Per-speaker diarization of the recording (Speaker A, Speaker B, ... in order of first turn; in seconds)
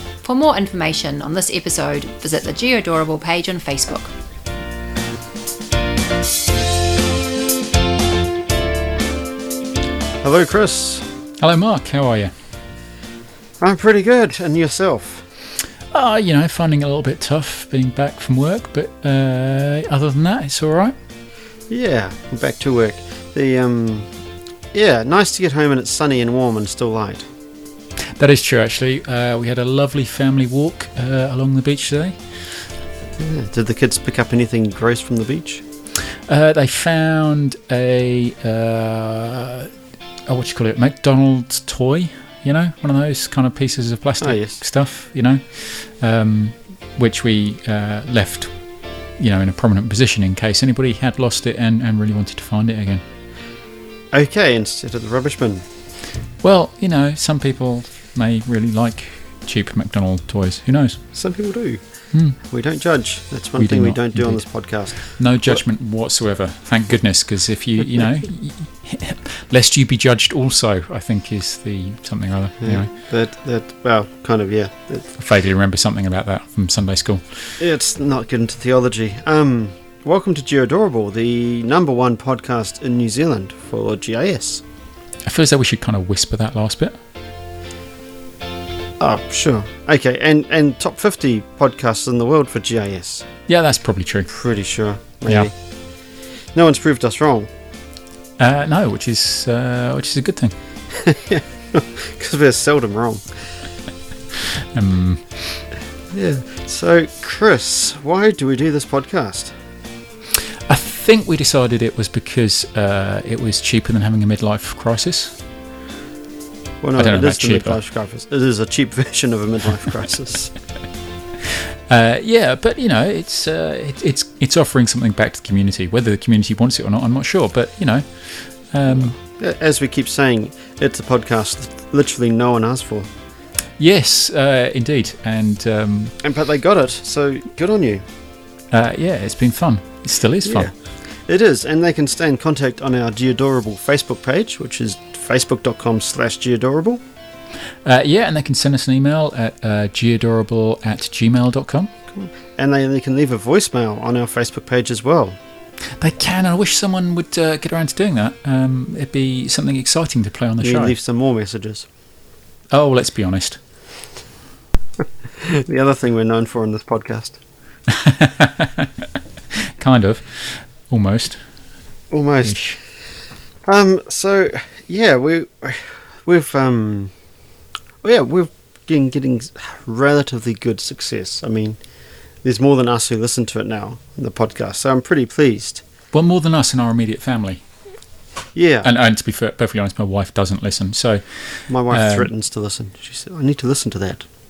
Speaker A: 0.2-4.1
Speaker B: 10.2-11.1, 13.6-15.3, 21.7-24.1, 24.7-27.3, 33.2-35.6, 44.2-44.6, 54.1-55.6, 61.1-61.8, 62.4-65.6, 72.6-75.1, 77.6-84.6, 89.0-93.3, 94.3-95.5, 96.5-97.5, 100.9-103.2, 106.1-109.5, 116.8-120.5, 128.9-133.1, 136.2-138.0, 140.4-140.7, 141.3-147.0, 152.1-155.4, 160.6-161.9, 165.4-167.4, 172.1-172.6, 173.7-177.1, 178.0-181.8, 182.4-185.8, 188.6-188.9, 191.7-194.3
Speaker C: 11.4-12.3, 15.9-20.9, 28.2-32.2, 36.3-39.7, 40.3-48.5, 49.2-53.0, 56.4-61.0, 62.1-62.4, 63.6-72.9, 75.2-77.5, 85.3-87.0, 93.5-94.3, 98.4-100.5, 104.4-105.6, 110.7-115.4, 117.0-117.8, 121.9-129.2, 133.8-136.2, 138.7-140.7, 147.8-151.9, 156.0-160.9, 162.7-163.6, 167.9-168.9, 169.6-171.4, 172.4-172.8, 186.1-187.6, 188.8-191.2, 191.9-192.3